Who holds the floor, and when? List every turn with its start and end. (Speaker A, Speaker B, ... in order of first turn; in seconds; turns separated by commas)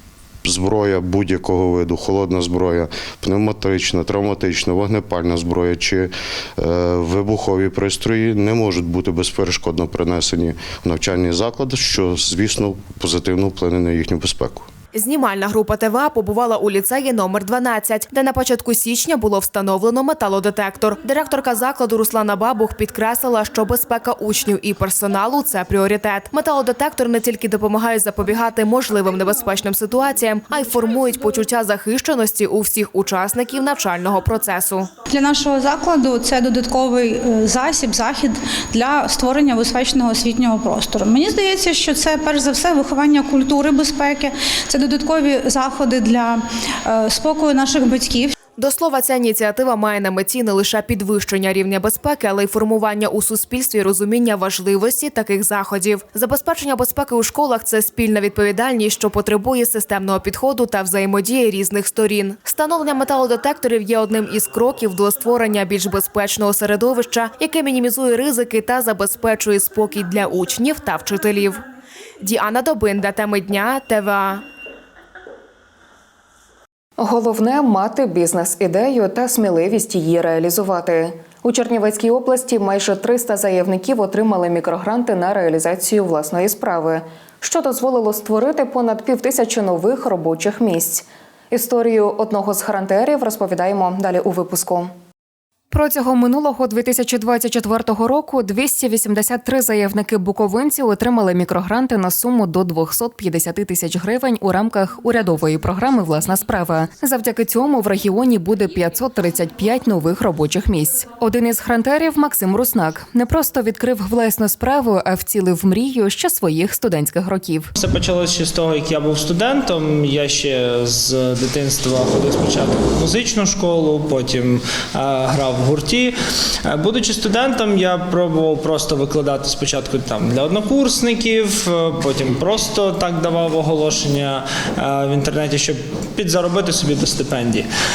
Speaker A: 0.5-14.7, Speaker B: 14.9-34.9, Speaker C: 35.0-48.3, Speaker B: 48.6-71.6, Speaker B: 72.2-74.5, Speaker D: 77.0-94.9, Speaker D: 95.7-117.7, Speaker E: 117.8-126.1, Speaker E: 126.7-137.7